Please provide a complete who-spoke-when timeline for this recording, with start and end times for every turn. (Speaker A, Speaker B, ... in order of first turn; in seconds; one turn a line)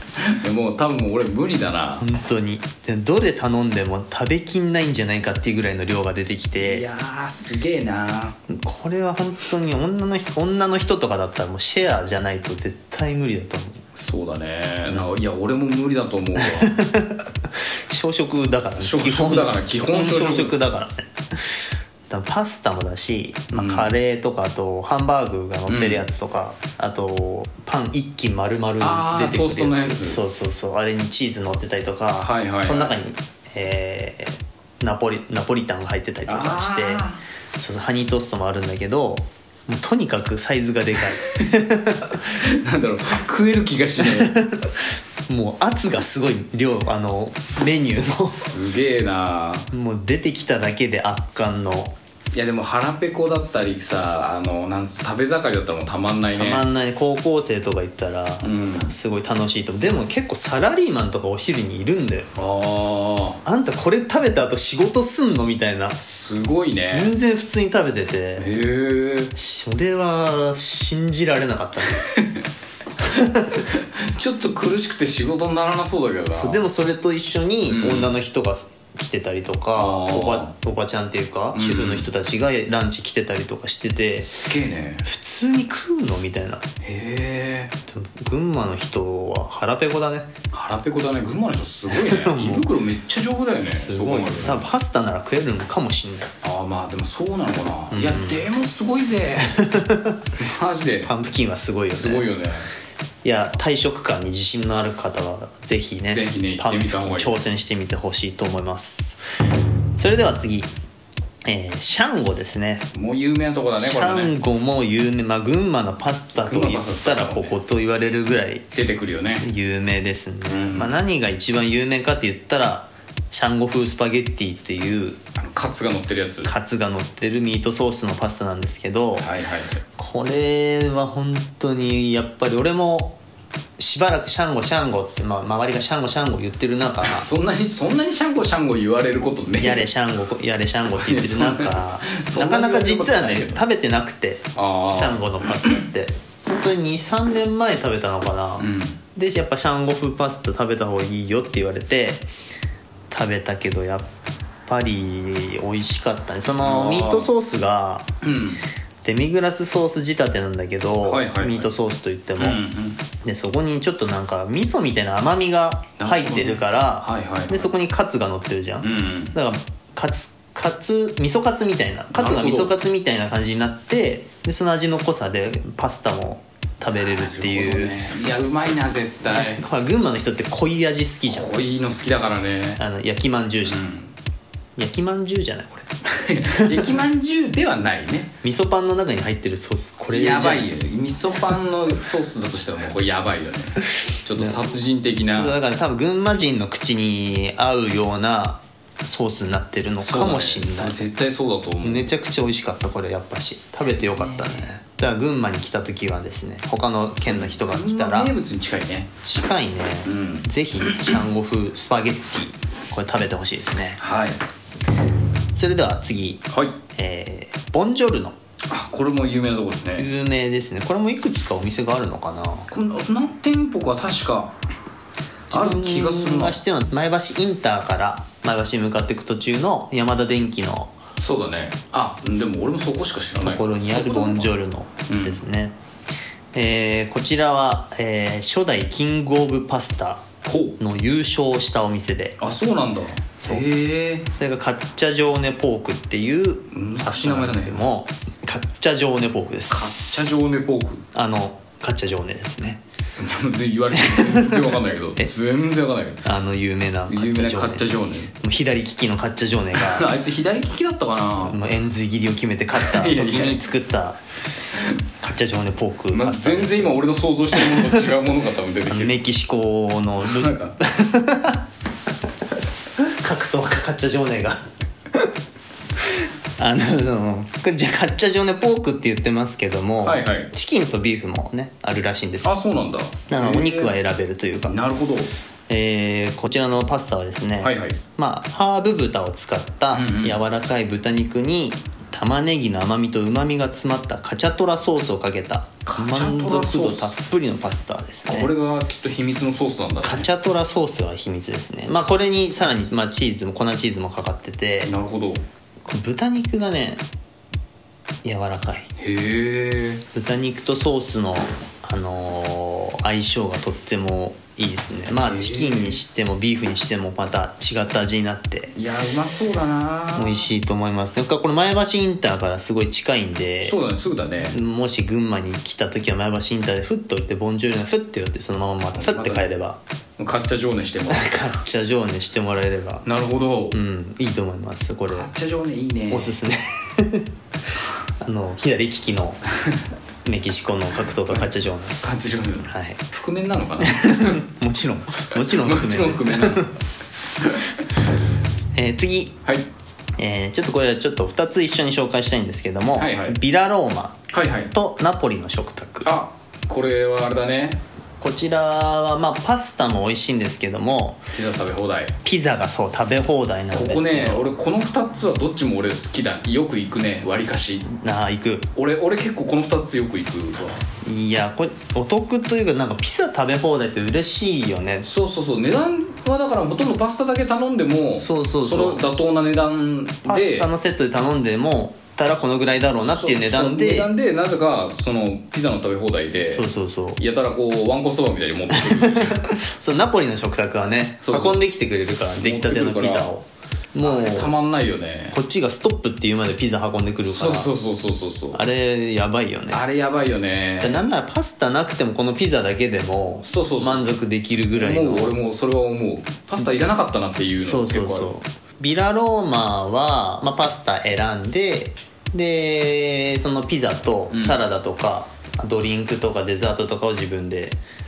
Speaker A: 0.1-2.1
Speaker B: 2.0-6.9
Speaker A: 6.6-8.4
Speaker B: 8.5-13.8
Speaker A: 13.9-16.8
Speaker B: 16.4-17.3
Speaker B: 17.9-21.5
Speaker A: 18.8-20.6
Speaker B: 22.1-37.0
Speaker A: 23.5-23.9
Speaker A: 25.7-26.1
Speaker A: 28.8-30.2
Speaker A: 32.2-32.9
Speaker A: 36.2-37.2
Speaker B: 37.6-42.3
Speaker A: 42.3-44.4
Speaker B: 44.0-44.7
Speaker B: 45.3-48.5
Speaker A: 48.3-49.7
Speaker B: 49.7-52.0
Speaker A: 52.3-56.6
Speaker B: 56.3-62.3
Speaker A: 58.4-58.9
Speaker A: 62.4-63.4
Speaker B: 63.5-66.0
Speaker A: 66.0-67.1
Speaker B: 66.9-68.5
Speaker A: 68.4-69.3
Speaker B: 69.3-72.0
Speaker A: 71.9-72.4
Speaker A: 73.0-76.6
Speaker B: 73.1-73.6
Speaker B: 76.3-84.4
Speaker A: 77.7-78.1
Speaker A: 79.8-80.5
Speaker A: 81.5-82.1
Speaker A: 84.2-85.0
Speaker B: 85.0-86.6
Speaker A: 86.8-87.7
Speaker B: 87.9-90.3
Speaker A: 90.5-94.7
Speaker B: 91.9-92.7
Speaker B: 93.6-96.3
Speaker A: 96.4-99.6
Speaker B: 97.9-98.5
Speaker B: 99.4-100.3
Speaker A: 100.4-101.1
Speaker B: 101.0-102.3
Speaker A: 101.9-102.7
Speaker B: 103.2-109.2
Speaker A: 106.1-107.4
Speaker B: 110.0-110.7
Speaker B: 111.5-112.9
Speaker A: 112.9-114.3
Speaker B: 113.8-118.7
Speaker A: 116.4-117.5
Speaker A: 118.8-119.5
Speaker B: 119.4-125.2
Speaker A: 120.5-120.9
Speaker A: 125.4-126.5
Speaker B: 126.4-129.3
Speaker A: 129.2-129.8
Speaker B: 130.0-133.2
Speaker B: 133.8-137.3
Speaker A: 137.0-139.9
Speaker B: 139.6-152.3
Speaker A: 141.0-143.6
Speaker A: 144.6-145.8
Speaker A: 148.6-149.0
Speaker B: 153.1-154.1
Speaker B: 154.7-158.1
Speaker A: 156.6-157.3
Speaker A: 158.2-158.6
Speaker B: 159.0-162.6
Speaker A: 161.0-161.7
Speaker A: 162.4-163.0
Speaker B: 163.2-178.0
Speaker A: 166.0-167.7
Speaker A: 168.8-169.3
Speaker A: 172.1-172.8
Speaker A: 176.9-179.6
Speaker B: 179.2-181.5
Speaker A: 181.3-182.8
Speaker B: 182.8-183.8
Speaker A: 183.7-184.1
Speaker B: 184.8-185.9
Speaker A: 186.0-188.3
Speaker B: 186.4-186.9
Speaker B: 188.4-190.7
Speaker A: 190.1-195.5
Speaker B: 194.4-194.7
Speaker B: 195.3-201.0
Speaker A: 200.0-202.1
Speaker B: 201.8-208.3
Speaker A: 204.0-204.7
Speaker A: 207.2-209.1
Speaker B: 209.2-214.0
Speaker A: 210.0-211.2
Speaker A: 214.0-214.4
Speaker B: 215.5-218.3
Speaker A: 216.5-216.8
Speaker A: 218.7-220.1
Speaker B: 220.0-222.7
Speaker A: 222.7-224.5
Speaker B: 225.5-230.9
Speaker A: 225.5-226.6
Speaker A: 231.2-234.5
Speaker B: 233.4-235.8
Speaker A: 235.1-235.4
Speaker B: 236.5-240.2
Speaker A: 240.4-240.8
Speaker B: 240.8-242.4
Speaker A: 242.4-244.3
Speaker B: 243.4-243.7
Speaker B: 244.3-250.3
Speaker A: 246.7-247.8
Speaker A: 249.7-251.0
Speaker B: 251.1-252.8
Speaker A: 253.2-256.2
Speaker B: 254.0-255.3
Speaker B: 256.2-260.1
Speaker A: 257.1-258.3
Speaker A: 259.7-261.6
Speaker B: 261.4-264.2
Speaker A: 262.8-263.6
Speaker B: 265.2-268.1
Speaker A: 266.1-269.2
Speaker B: 268.9-271.6
Speaker A: 270.2-270.8
Speaker B: 273.0-275.3
Speaker B: 276.0-282.5
Speaker A: 280.0-280.5
Speaker A: 282.4-283.9
Speaker B: 283.3-284.8
Speaker A: 284.7-285.3
Speaker B: 285.7-298.5
Speaker A: 287.6-288.0
Speaker A: 289.9-290.4
Speaker A: 295.9-297.1
Speaker A: 298.3-300.3
Speaker B: 300.0-304.9
Speaker A: 304.8-305.4
Speaker B: 305.8-307.0
Speaker B: 308.2-308.9
Speaker A: 309.0-310.0
Speaker B: 310.1-318.7
Speaker A: 315.2-316.0
Speaker A: 318.8-320.5
Speaker B: 320.1-323.8
Speaker A: 323.6-324.6
Speaker B: 324.4-329.8
Speaker A: 328.9-329.5
Speaker A: 330.2-331.5
Speaker B: 331.1-333.0
Speaker A: 333.0-333.8
Speaker B: 333.7-335.3
Speaker A: 335.1-336.3
Speaker B: 336.1-337.3
Speaker B: 338.2-339.4
Speaker B: 340.2-342.0
Speaker A: 342.0-344.4
Speaker B: 342.7-343.0
Speaker B: 343.8-346.7
Speaker A: 345.3-346.7
Speaker A: 347.4-347.9
Speaker B: 348.7-349.4
Speaker B: 350.2-356.1
Speaker A: 353.0-353.4
Speaker A: 354.3-354.7
Speaker A: 356.0-357.8
Speaker B: 358.2-361.2
Speaker A: 361.3-362.1
Speaker B: 362.2-364.5
Speaker A: 363.7-367.9
Speaker B: 367.8-368.7
Speaker A: 368.8-370.8
Speaker B: 371.0-375.1
Speaker A: 375.0-380.7
Speaker B: 378.2-379.0
Speaker B: 380.2-384.1
Speaker A: 383.0-386.6
Speaker B: 386.5-387.2
Speaker A: 387.2-389.5
Speaker B: 388.7-394.5
Speaker A: 391.2-391.6
Speaker A: 392.4-393.3
Speaker A: 394.0-395.4
Speaker B: 395.3-397.7
Speaker A: 397.2-398.6
Speaker B: 398.5-399.8
Speaker A: 399.7-401.1
Speaker B: 400.8-405.4
Speaker A: 403.4-404.1
Speaker A: 404.7-408.3
Speaker B: 407.6-417.8
Speaker A: 414.3-414.6